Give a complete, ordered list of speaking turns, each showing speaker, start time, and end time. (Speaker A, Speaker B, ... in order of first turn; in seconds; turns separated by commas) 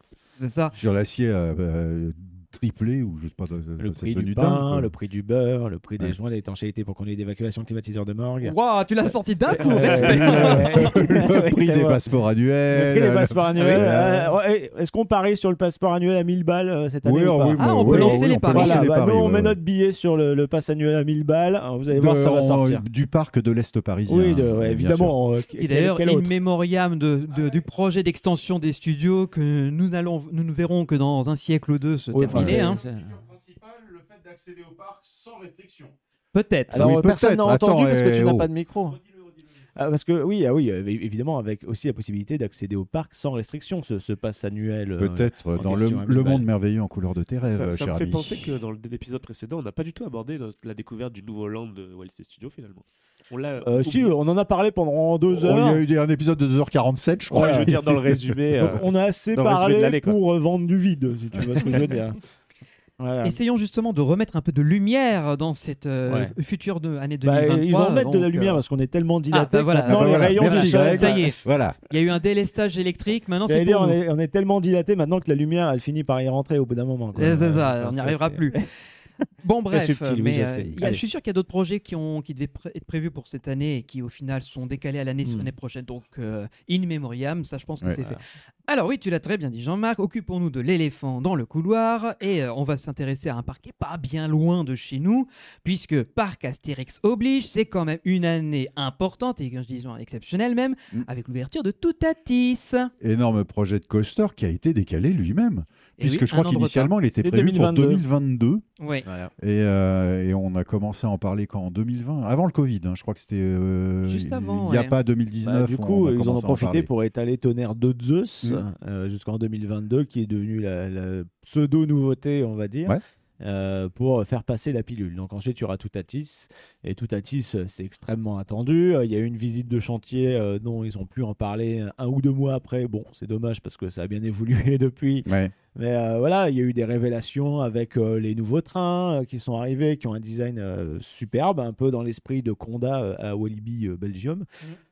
Speaker A: 0.3-0.8, Speaker B: 0.8-4.9, Speaker C: 3.8-8.6, Speaker A: 8.4-11.0, Speaker C: 9.5-12.0, Speaker D: 9.6-10.5, Speaker B: 10.2-14.4, Speaker C: 12.7-22.8, Speaker A: 13.5-13.8, Speaker B: 17.0-19.6, Speaker A: 17.6-18.8, Speaker B: 21.9-25.2, Speaker C: 24.1-26.4, Speaker A: 25.6-32.8, Speaker C: 32.1-33.2, Speaker B: 32.3-32.8, Speaker E: 33.7-35.9, Speaker A: 36.3-36.9, Speaker C: 36.7-39.0, Speaker B: 36.7-38.5, Speaker C: 39.8-46.5, Speaker B: 45.0-48.5, Speaker D: 47.5-54.2, Speaker C: 53.6-55.8, Speaker B: 55.3-58.4, Speaker D: 57.3-60.2, Speaker C: 57.3-57.8, Speaker C: 58.5-62.2, Speaker C: 63.0-63.4, Speaker A: 63.2-68.6, Speaker C: 66.1-66.3, Speaker C: 67.2-71.3, Speaker A: 69.3-74.0, Speaker B: 69.9-71.8, Speaker C: 73.5-78.7, Speaker A: 77.2-78.6, Speaker A: 79.4-102.9, Speaker C: 79.7-81.0, Speaker B: 103.0-108.7, Speaker A: 106.0-106.9, Speaker C: 107.2-108.0, Speaker A: 108.8-109.1, Speaker C: 109.0-109.3, Speaker B: 109.4-116.9, Speaker A: 114.1-115.0, Speaker C: 115.4-144.5, Speaker B: 135.3-135.6